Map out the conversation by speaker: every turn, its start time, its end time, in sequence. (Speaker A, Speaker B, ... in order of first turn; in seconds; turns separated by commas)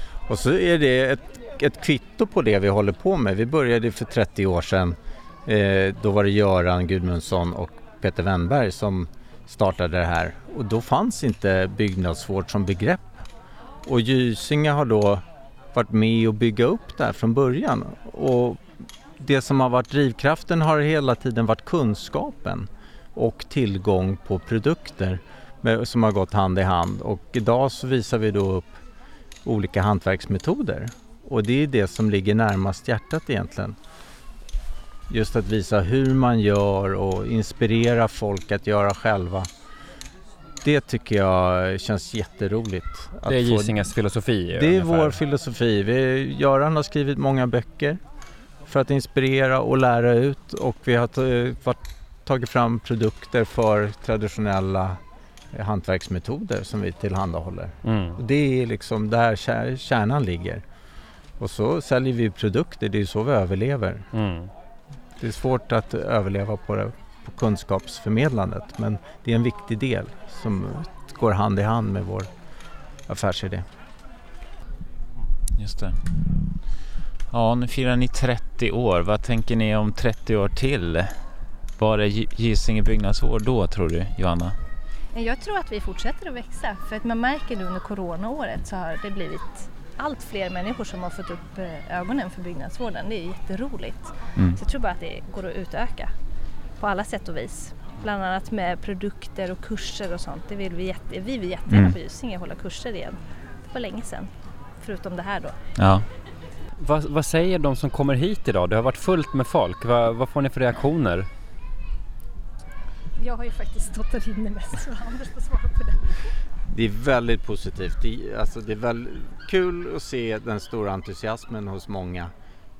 Speaker A: 0.3-13.1, Speaker A: 13.8-18.6, Speaker A: 19.2-28.8, Speaker A: 29.4-33.8, Speaker A: 35.1-39.5, Speaker A: 40.6-43.8, Speaker B: 43.3-45.2, Speaker A: 44.5-48.0, Speaker A: 48.6-55.0, Speaker A: 55.5-60.6, Speaker B: 57.8-58.2, Speaker A: 61.4-64.1, Speaker B: 64.1-64.5, Speaker A: 65.2-72.3, Speaker A: 73.1-73.6, Speaker C: 75.5-76.1, Speaker C: 77.3-81.2, Speaker C: 81.8-84.6, Speaker D: 85.1-96.1, Speaker D: 96.8-105.5, Speaker C: 101.7-101.9, Speaker C: 105.8-106.0, Speaker B: 106.8-111.3, Speaker D: 113.2-116.3, Speaker A: 116.7-122.3